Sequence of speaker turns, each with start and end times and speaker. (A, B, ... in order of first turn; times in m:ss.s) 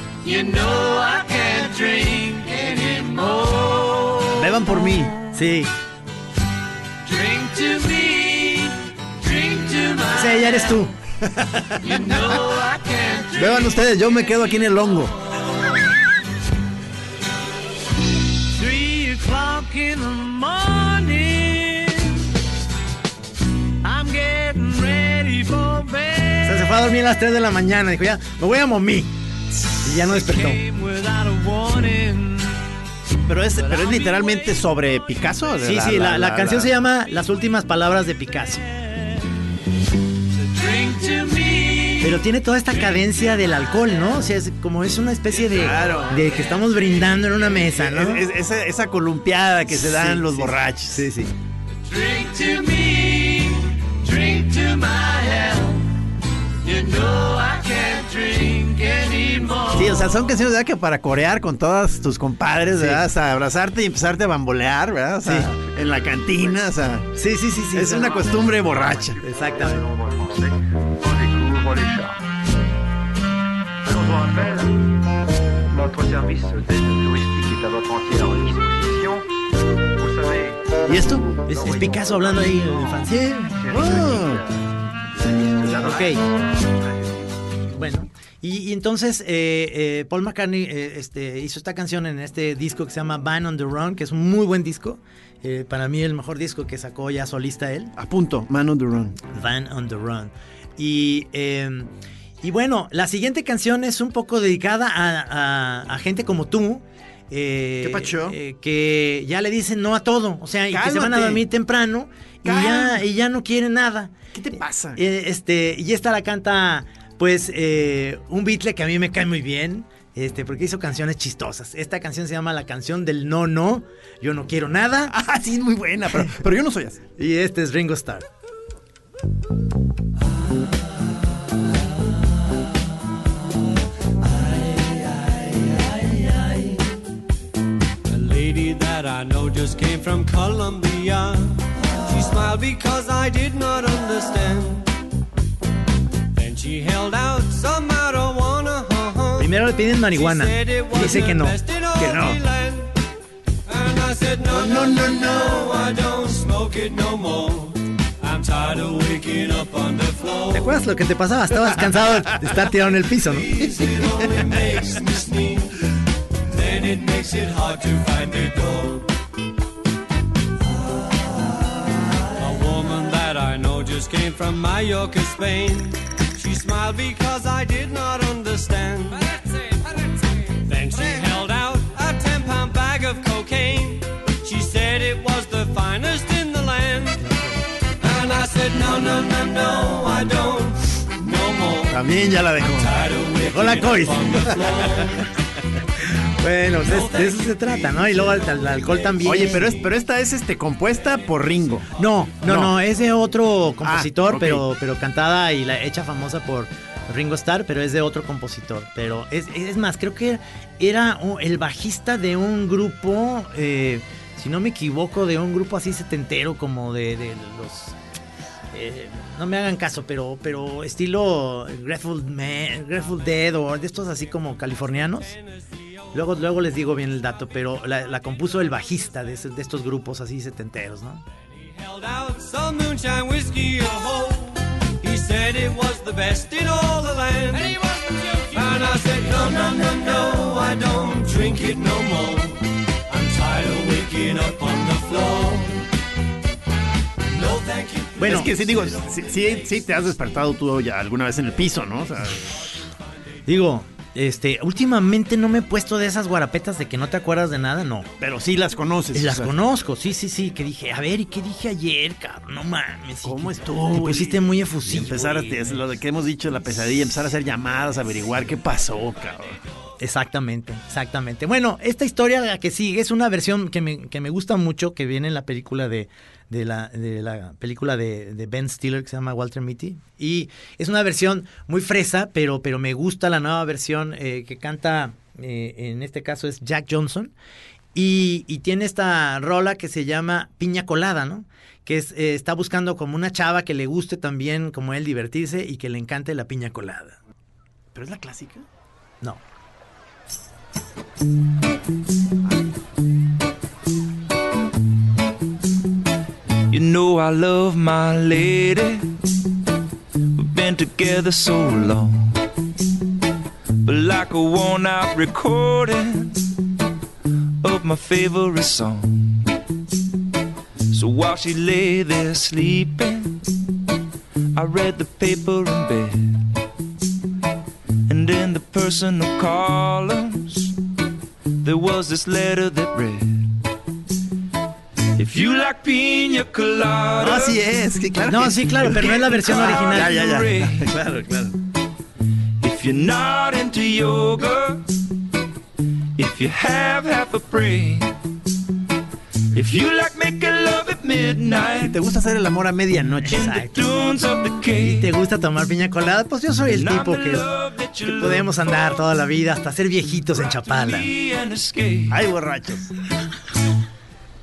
0:00.2-0:04.6 A
0:04.4-0:05.1 B
0:04.4-0:05.7 C
0:07.1-0:10.9 A
0:10.1-0:10.9 C
0:11.8-0:13.8 A
0:13.3-0:15.1 B
0:18.5-0:22.2 A
0:23.8-0:26.5 A
0:26.4-0:29.1 C
0:29.8-0:30.6 C
0:30.2-0:32.5 A
0:33.3-0:36.7 B
0:35.6-0:38.7 C
0:40.5-0:42.1 A
0:42.0-0:48.2 C
0:45.3-0:46.3 B
0:47.7-0:51.1 B
0:49.8-0:51.3 C
0:51.9-0:55.9 A
0:56.6-1:00.0 A
0:59.7-1:07.1 B
1:02.7-1:03.0 C
1:05.2-1:05.5 C
1:07.2-1:08.3 C
1:07.7-1:09.2 B
1:09.2-1:09.9 C
1:16.2-1:17.6 A
1:18.2-1:18.6 A
1:20.9-1:23.8 C
1:23.7-1:24.5 B
1:25.6-1:26.2 C
1:27.7-1:37.9 C
1:38.0-1:39.2 B
1:39.3-1:41.9 C
1:42.4-1:54.2 C
1:47.8-1:48.4 B
1:50.7-1:51.5 B
1:52.4-1:53.0 B
1:54.3-1:55.0 B
1:55.0-2:05.1 C
2:05.1-2:07.0 B
2:07.2-2:08.3 C
2:18.1-2:24.9 D
2:26.4-2:29.5 D
2:29.4-2:31.6 C
2:30.1-2:32.9 D
2:32.0-2:32.4 B
2:33.7-2:40.7 D
2:40.5-2:43.5 C
2:43.4-2:45.7 D
2:46.5-2:49.1 D
2:52.4-2:59.3 D
3:00.6-3:07.3 D
3:08.0-3:12.0 D
3:11.9-3:12.9 B
3:12.7-3:15.2 D
3:13.4-3:14.4 C
3:16.4-3:19.9 C
3:16.9-3:18.4 D
3:19.2-3:21.9 B
3:22.0-3:38.0 C
3:22.4-3:22.8 B
3:23.8-3:24.6 B
3:38.7-3:45.4 C
3:46.1-3:51.2 C
3:51.7-3:57.8 D
3:58.5-4:05.8 D
4:07.3-4:08.3 D
4:08.2-4:08.5 C
4:08.2-4:12.7 B
4:13.5-4:18.1 C
4:18.2-4:19.5 B
4:19.1-4:25.8 C
4:23.2-4:29.6 B
4:30.0-4:47.3 C
4:48.0-4:57.2 C
4:57.9-4:58.6 B
5:06.7-5:09.1 E
5:10.4-5:12.4 E
5:13.8-5:16.4 E
5:17.6-5:19.4 E
5:20.9-5:23.4 E
5:24.6-5:26.5 E
5:28.1-5:30.8 E
5:31.6-5:33.5 E
5:35.2-5:37.6 E
5:37.2-5:41.5 B
5:38.3-5:40.2 C
5:39.6-5:40.9 E
5:42.6-5:44.8 E
5:46.2-5:48.1 E
5:49.5-5:52.0 E
5:51.7-5:53.5 B
5:53.2-5:54.2 C
5:53.3-5:55.1 E
5:54.8-5:57.5 C
5:56.7-5:58.5 E
5:58.0-6:01.1 C
6:00.6-6:02.1 E
6:02.1-6:02.9 B